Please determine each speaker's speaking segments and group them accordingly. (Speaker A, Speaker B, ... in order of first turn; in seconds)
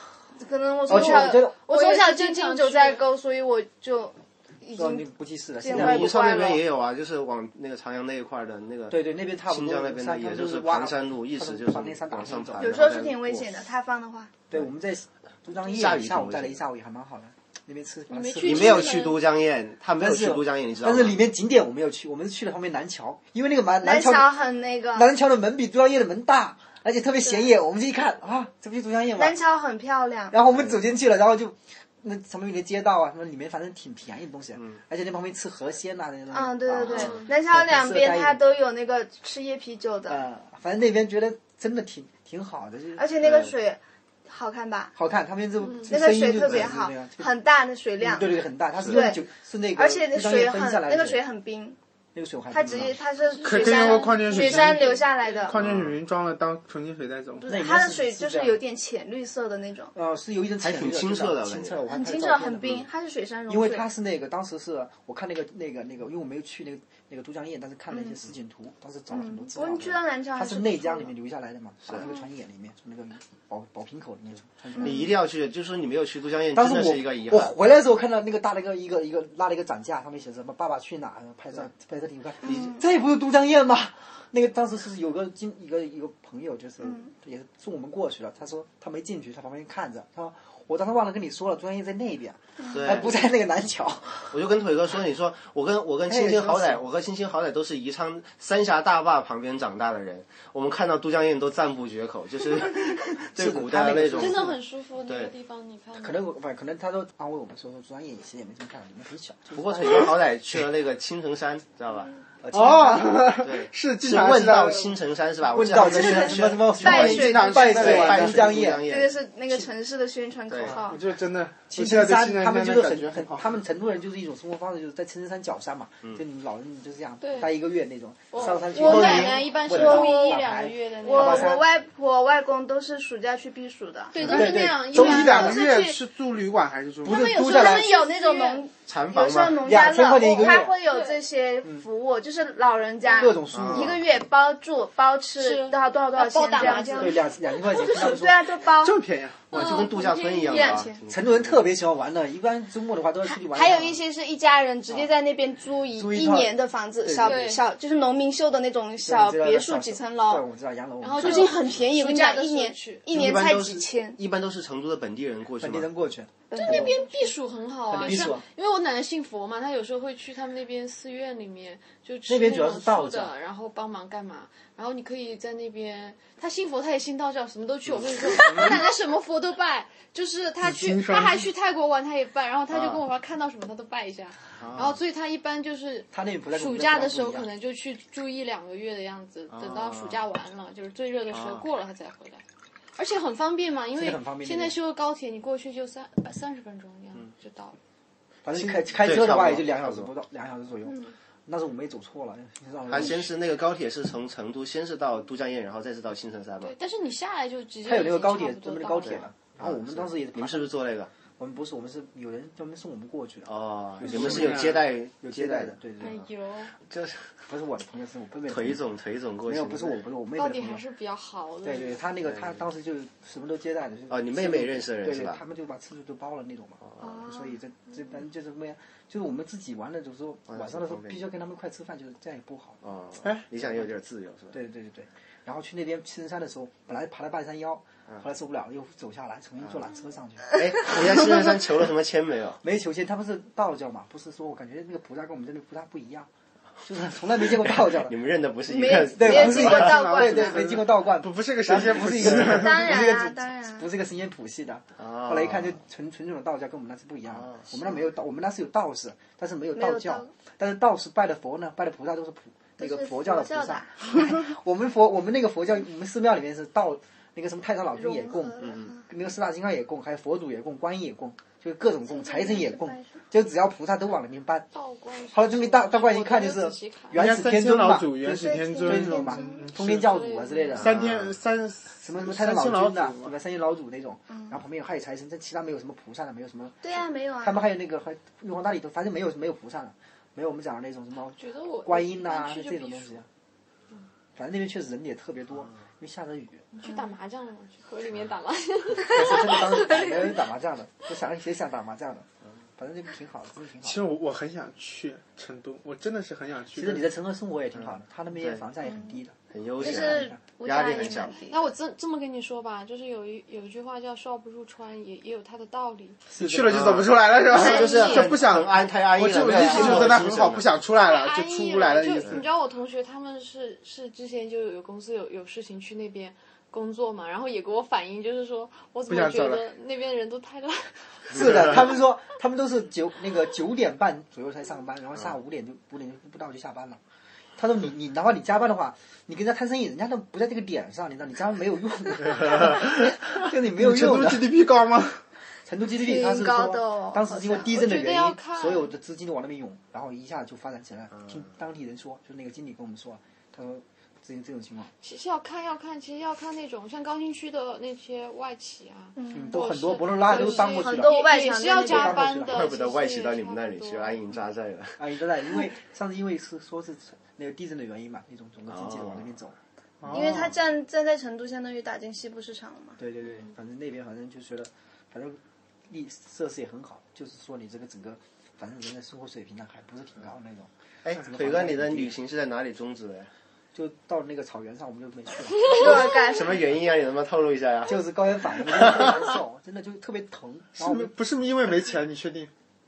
Speaker A: 0.3-5.1, 5.6-6.6, 12.6-14.3, 23.8-25.1, 29.2-30.4, 36.3-40.2, 43.0-44.9, 45.9-49.2, 49.8-51.8, 52.5-55.6, 57.4-59.9, 61.9-63.9, 67.9-68.2, 69.1-71.1, 82.4-82.8, 92.6-93.0, 115.9-121.0, 128.7-130.5, 131.0-136.0, 137.3-147.2, 147.7-149.0, 149.5-151.0, 153.3-160.4, 161.2-164.2, 166.5-167.1, 227.0-227.6, 248.7-250.7, 252.5-253.9, 259.8-260.3, 262.8-264.3, 268.0-269.0, 272.1-273.2, 278.3-279.7, 286.8-287.6, 309.8-311.7, 346.0-347.6, 359.2-359.6, 360.2-362.3, 370.1-373.0, 385.6-386.6
Speaker B: 0.9-1.6, 4.8-6.1, 8.9-12.8, 14.5-19.0, 20.0-24.3, 24.9-29.4, 30.3-38.4, 40.1-43.1, 45.0-47.3, 48.0-51.2, 52.1-53.0, 57.5-58.6, 59.9-62.9, 63.5-75.1, 76.5-94.4, 96.1-96.8, 102.8-104.6, 106.0-110.2, 112.4-113.3, 115.5-118.9, 121.7-131.6, 134.2-135.6, 137.0-137.9, 139.6-140.8, 143.2-144.0, 146.9-148.4, 151.1-154.0, 155.9-157.5, 159.0-161.6, 165.6-167.0, 167.9-168.4, 172.3-173.3, 178.4-178.8, 186.1-187.5, 193.9-194.8, 198.4-203.3, 207.8-210.7, 211.4-216.2, 217.5-218.8, 219.5-220.8, 221.6-232.8, 234.5-241.4, 242.6-246.3, 246.8-248.2, 249.1-274.7, 275.3-281.2, 282.0-286.9, 287.4-293.3, 294.4-296.7, 299.1-304.0, 306.8-310.4, 316.3-317.0, 331.3-337.0, 337.6-344.5, 345.7-354.9, 359.3-362.7, 365.0-369.6, 373.0-382.2, 383.7-385.8, 387.9-391.1
Speaker C: 1.0-3.0, 18.1-19.2, 36.9-37.3, 53.4-55.3, 104.2-106.2, 127.2-127.5, 128.3-131.6, 134.1-135.7, 137.1-138.6, 140.8-141.2, 143.1-143.3, 145.4-148.1, 149.5-150.9, 157.2-157.7, 161.0-163.1, 166.5-192.4, 192.9-197.8, 200.9-201.1, 206.6-209.2, 216.0-216.7, 220.4-222.0, 274.7-277.2, 279.8-281.0, 291.4-293.2, 296.7-300.1, 311.0-316.2, 317.5-318.3, 319.6-320.1, 321.1-331.4, 347.5-348.9, 355.0-364.2
Speaker D: 5.7-13.4, 15.7-16.6, 18.4-21.2, 43.2-43.5, 55.5-56.0, 60.6-61.8, 74.8-77.5, 82.4-82.7, 92.7-93.1, 94.3-104.5, 105.0-105.3, 109.5-112.1, 113.4-119.2, 120.5-120.8, 128.8-129.3, 138.9-139.7, 143.5-144.0, 149.5-151.7, 163.1-165.9, 182.7-183.0, 184.6-185.0, 189.5-190.2, 191.3-191.7, 199.0-200.1, 202.9-206.7, 209.1-211.1, 213.4-216.2, 216.9-217.4, 218.5-220.0, 222.2-222.6, 224.1-225.4, 226.8-227.2, 230.5-231.2, 232.8-234.6, 240.6-242.6, 247.6-250.1, 255.0-255.8, 257.3-257.7, 268.6-268.9, 281.0-281.3, 308.4-308.6, 309.5-311.4, 316.7-320.7, 362.5-365.0, 368.7-369.4, 381.0-383.3, 385.7-388.0, 388.7-389.2
Speaker E: 53.4-57.5, 112.5-114.9, 116.8-118.3, 120.7-123.5, 134.4-137.3, 148.8-149.5, 180.6-181.5, 214.0-214.8, 249.3-253.0, 277.1-280.1, 280.8-283.3, 303.8-307.1, 316.4-322.5, 329.1-329.6, 343.7-345.2, 370.0-370.5, 390.8-392.5